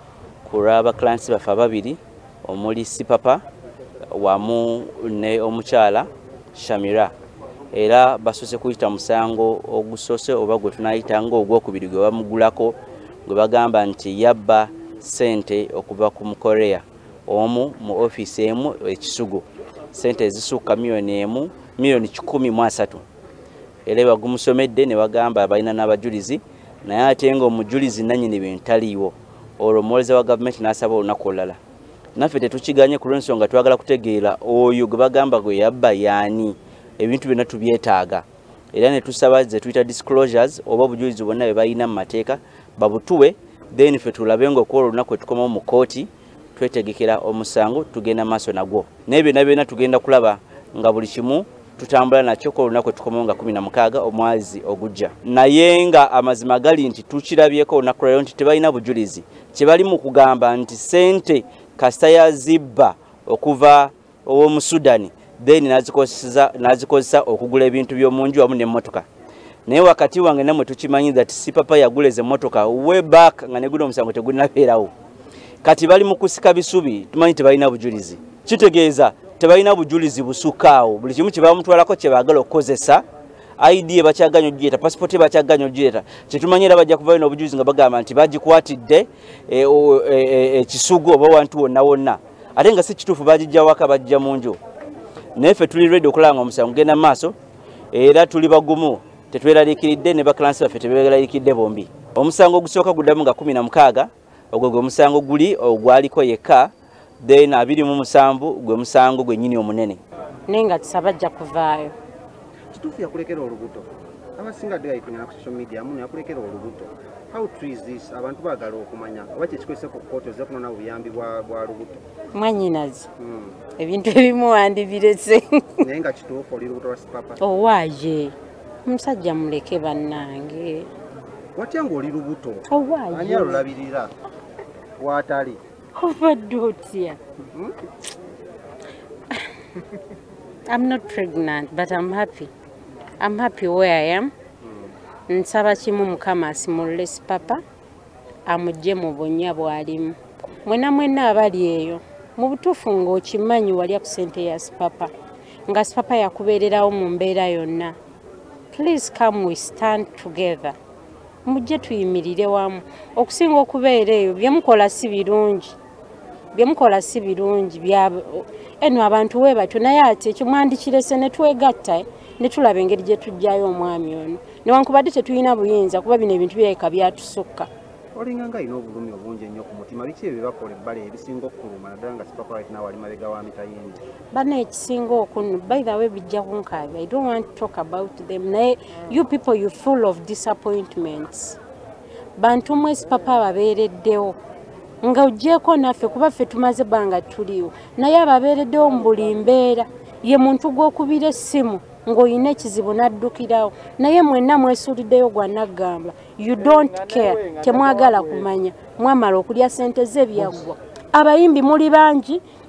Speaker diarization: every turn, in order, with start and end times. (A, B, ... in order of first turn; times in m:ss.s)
0:00.4-0:03.4 A
0:04.1-0:07.1 A
0:07.7-0:23.0 A
0:23.9-0:31.6 A
0:32.2-1:09.1 A
1:09.7-1:14.9 A
1:15.6-1:23.0 A
1:23.6-1:34.6 A
1:35.4-1:37.4 A
1:37.9-1:46.7 A
1:47.2-1:50.0 A
1:50.5-1:52.0 B
1:52.7-2:02.0 C
2:02.3-2:03.1 B
2:03.2-2:03.6 C
2:03.8-2:05.8 B
2:05.8-2:07.4 C
2:07.4-2:10.9 B
2:11.6-2:14.1 C
2:12.7-2:13.6 B
2:15.0-2:15.6 C
2:16.0-2:17.2 B
2:19.3-2:19.6 B
2:20.7-2:22.5 B
2:23.2-2:24.3 B
2:24.6-2:24.9 C
2:25.3-2:27.6 B
2:28.5-2:35.1 B
2:35.7-2:38.0 B
2:38.7-2:40.8 B
2:41.4-2:45.8 B
2:46.5-2:57.7 B
2:58.1-3:04.0 C
3:04.3-3:11.6 B
3:12.4-3:14.4 B
3:15.0-3:32.4 B